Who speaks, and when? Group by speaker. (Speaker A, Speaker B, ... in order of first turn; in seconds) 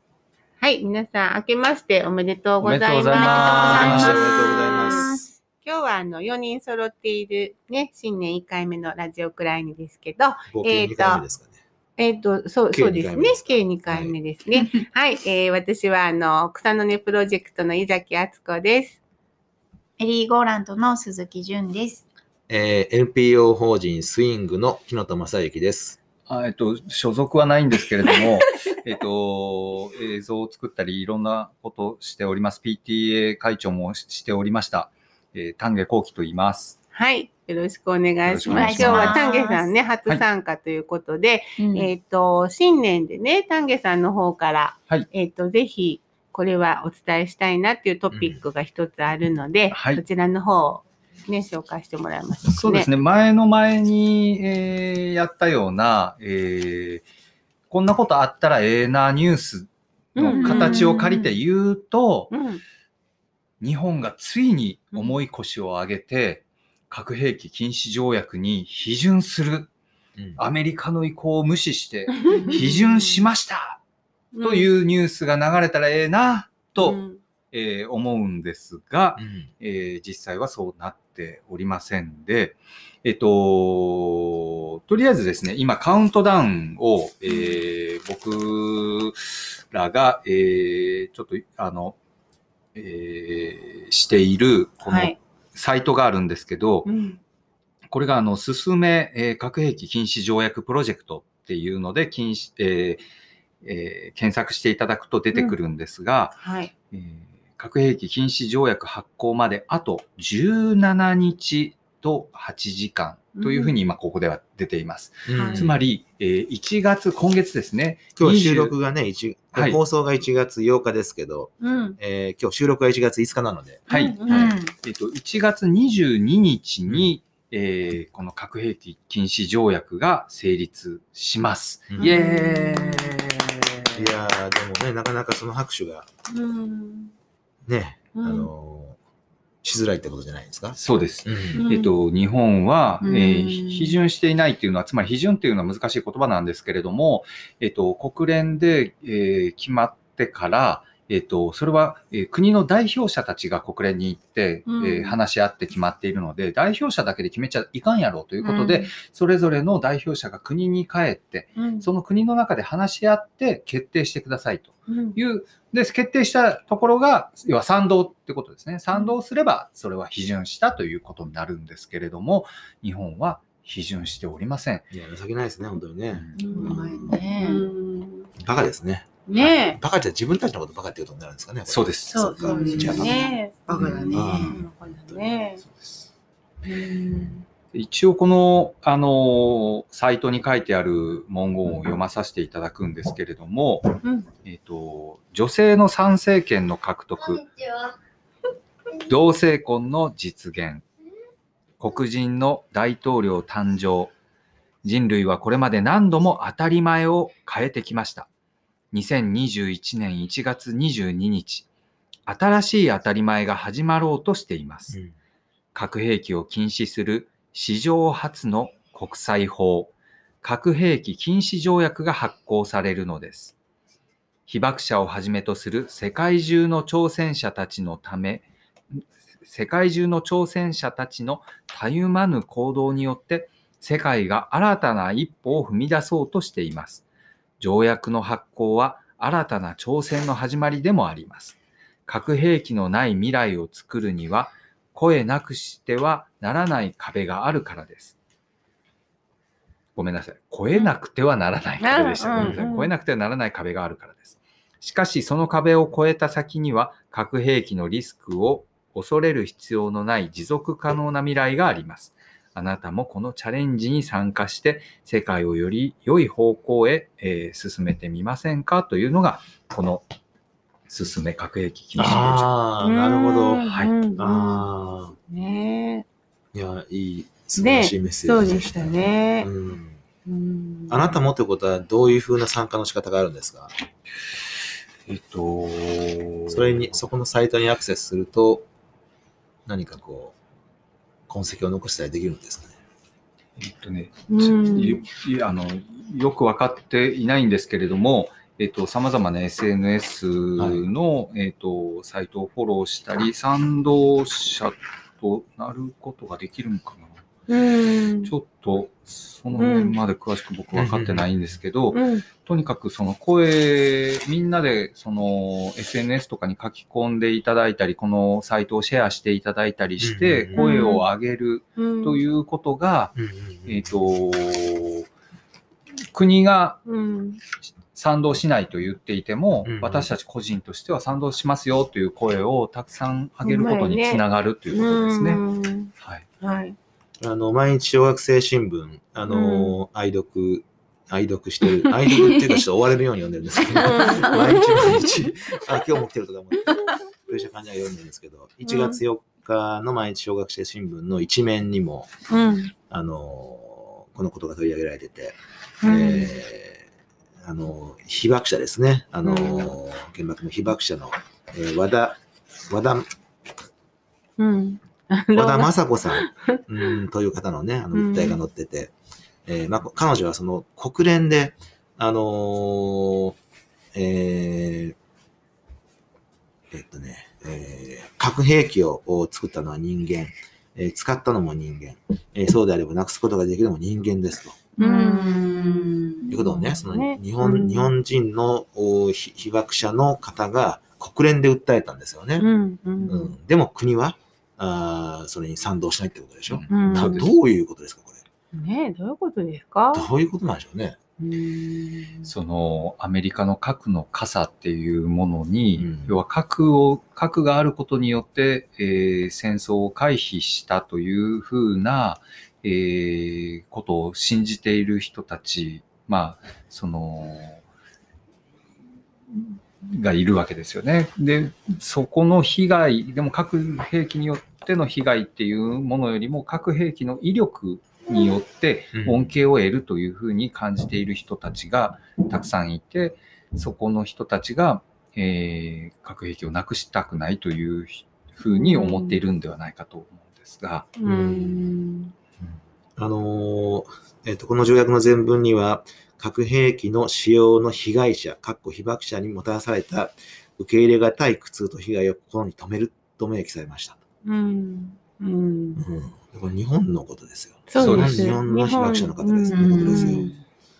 Speaker A: 0.6-5.1, 5.6-11.2, 12.0-19.0, 36.9-52.9, 60.1-61.2, 62.3-62.6, 72.1-73.2, 74.3-74.7, 76.8-77.2, 87.3-87.5, 94.8-95.1, 96.8-97.2, 106.4-106.7, 113.3-113.7, 115.3-115.7, 121.6-122.0, 123.9-124.5, 132.0-132.6, 136.3-137.1, 138.1-138.5, 141.5-141.9, 154.7-155.2, 161.6-161.9, 164.9-165.2, 176.4-178.3, 179.3-179.8, 182.1-185.6, 186.6-187.4, 194.0-194.3, 251.8-252.9, 272.8-274.6, 275.3-276.1, 277.6-279.5, 280.2-281.1, 294.3-295.0, 307.5-308.3, 309.6-309.9, 311.9-312.2, 320.5-321.1, 321.8-322.2, 326.9-327.4, 333.4-336.8, 339.2-339.7, 343.7-345.3, 346.7-346.9, 348.6-349.0, 352.3-352.7, 355.8-356.4, 359.2-359.7, 364.4-366.9, 367.9-368.4, 384.8-387.9, 392.4-393.3, 396.7-397.2, 398.5-400.1, 401.2-402.3, 441.0-442.1, 454.2-455.8, 457.7-460.3
Speaker B: 2.6-4.3, 26.3-36.8, 38.2-39.2, 49.7-50.0, 52.4-57.0, 57.7-62.3, 63.6-69.7, 70.4-73.8, 74.4-92.0, 92.7-96.9, 97.9-103.0, 103.6-106.4, 106.9-118.7, 123.9-134.2, 140.8-174.9, 181.7-183.2, 185.6-186.1, 187.7-197.5, 199.0-200.8, 201.8-204.1, 204.8-208.3, 208.9-211.7, 212.3-215.0, 215.7-223.6, 224.5-237.0, 237.6-248.1, 249.9-270.0, 270.9-272.5, 273.6-273.9, 285.1-287.0, 293.6-307.2, 308.2-325.1, 326.1-326.8, 327.9-335.4, 336.0-336.2, 396.5-397.3, 402.2-417.6, 419.3-440.9, 457.8-458.3
Speaker C: 3.1-5.3, 20.0-22.0, 38.5-39.7, 41.6-41.9, 60.3-61.3, 124.2-124.7, 132.2-133.1, 143.0-143.9, 158.4-158.9, 176.4-177.7, 182.5-184.6, 342.1-342.6, 343.7-344.1, 384.8-386.2, 438.5-439.0, 459.5-460.4
Speaker D: 3.5-5.1, 10.5-11.6, 12.7-14.2, 22.5-26.0, 48.1-48.4, 70.2-70.4, 79.2-79.5, 115.3-115.8, 118.2-123.8, 131.9-132.2, 133.9-136.1, 137.7-139.0, 139.6-141.6, 174.9-177.0, 178.4-183.3, 184.1-185.2, 271.9-275.1, 276.5-280.0, 280.9-283.7, 286.5-288.6, 289.6-290.3, 291.3-292.7, 300.6-300.8, 310.7-311.2, 320.0-320.6, 323.1-323.9, 329.6-330.1, 337.2-352.1, 352.9-356.8, 357.4-363.1, 365.3-368.9, 369.4-373.4, 373.9-374.9, 376.7-384.6, 386.3-392.5, 393.0-398.2, 399.9-401.0, 405.8-406.1, 428.9-429.3, 441.0-441.6, 442.4-454.0, 455.8-460.3